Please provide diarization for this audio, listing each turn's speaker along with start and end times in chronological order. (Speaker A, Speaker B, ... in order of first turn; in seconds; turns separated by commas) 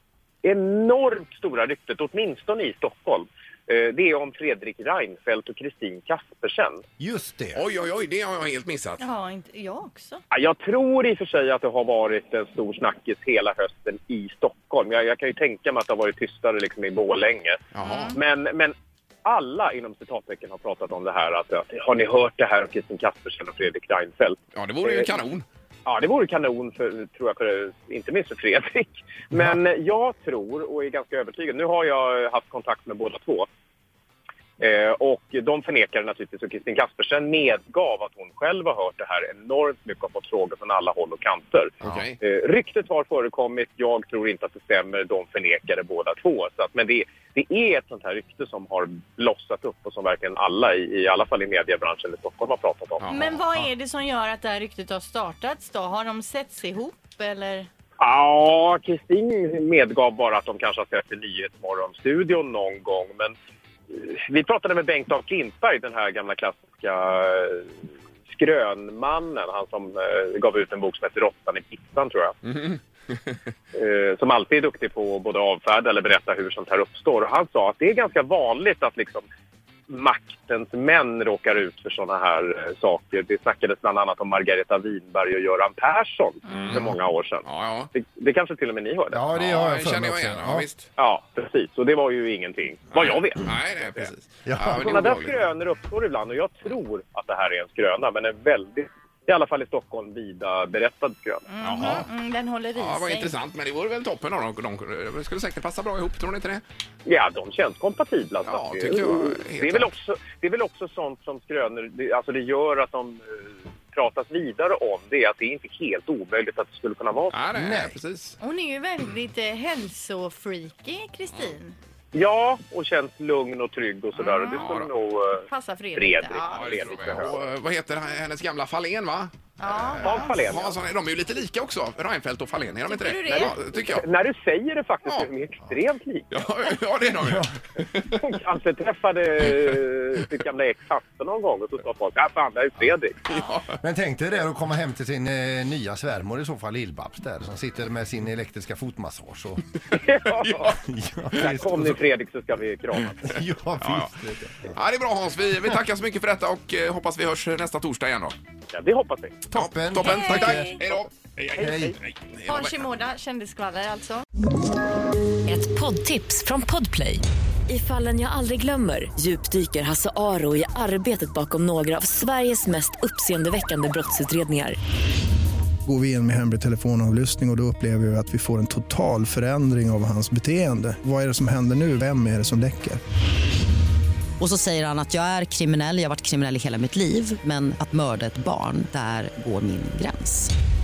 Speaker A: 0.4-6.8, Speaker B: 7.0-7.6, Speaker C: 7.5-9.0, Speaker D: 9.0-10.2, Speaker A: 10.3-17.6, Speaker C: 17.7-18.1, Speaker D: 17.8-18.1, Speaker A: 18.1-25.1, Speaker C: 24.5-25.4, Speaker A: 25.8-33.5, Speaker A: 34.6-53.0, Speaker C: 41.8-42.2, Speaker C: 53.0-53.7, Speaker D: 53.1-57.7, Speaker A: 58.0-63.3, Speaker A: 63.9-67.7, Speaker A: 68.3-72.3, Speaker C: 72.5-73.3, Speaker A: 73.7-79.2, Speaker A: 79.9-89.2, Speaker C: 86.5-87.9, Speaker B: 89.1-90.7, Speaker C: 89.3-90.9, Speaker A: 91.0-93.5, Speaker C: 92.9-95.3, Speaker B: 94.5-95.0, Speaker A: 94.8-101.4, Speaker D: 101.5-103.3, Speaker C: 101.6-102.1, Speaker C: 102.7-106.6, Speaker A: 107.0-117.4, Speaker C: 108.5-109.9, Speaker C: 117.3-118.4, Speaker B: 117.5-117.9, Speaker D: 118.4-121.7, Speaker A: 122.1-127.4, Speaker D: 124.2-124.7, Speaker C: 124.5-124.9, Speaker D: 125.5-127.3, Speaker C: 126.5-134.0, Speaker D: 129.6-130.4, Speaker A: 130.0-130.8, Speaker D: 132.8-133.6, Speaker A: 133.3-136.4, Speaker C: 136.3-138.2, Speaker B: 137.2-137.5, Speaker A: 138.2-143.2, Speaker C: 143.2-143.8, Speaker B: 143.8-149.6, Speaker A: 149.9-150.8, Speaker B: 150.6-152.0, Speaker A: 151.3-153.3, Speaker B: 153.2-154.7, Speaker C: 153.8-154.1, Speaker C: 154.7-158.3, Speaker A: 158.7-159.4, Speaker B: 159.5-160.8, Speaker C: 159.5-163.0, Speaker D: 160.0-160.8, Speaker B: 161.6-162.0, Speaker D: 162.4-164.2, Speaker E: 165.4-174.8, Speaker F: 175.8-183.0, Speaker G: 184.4-190.5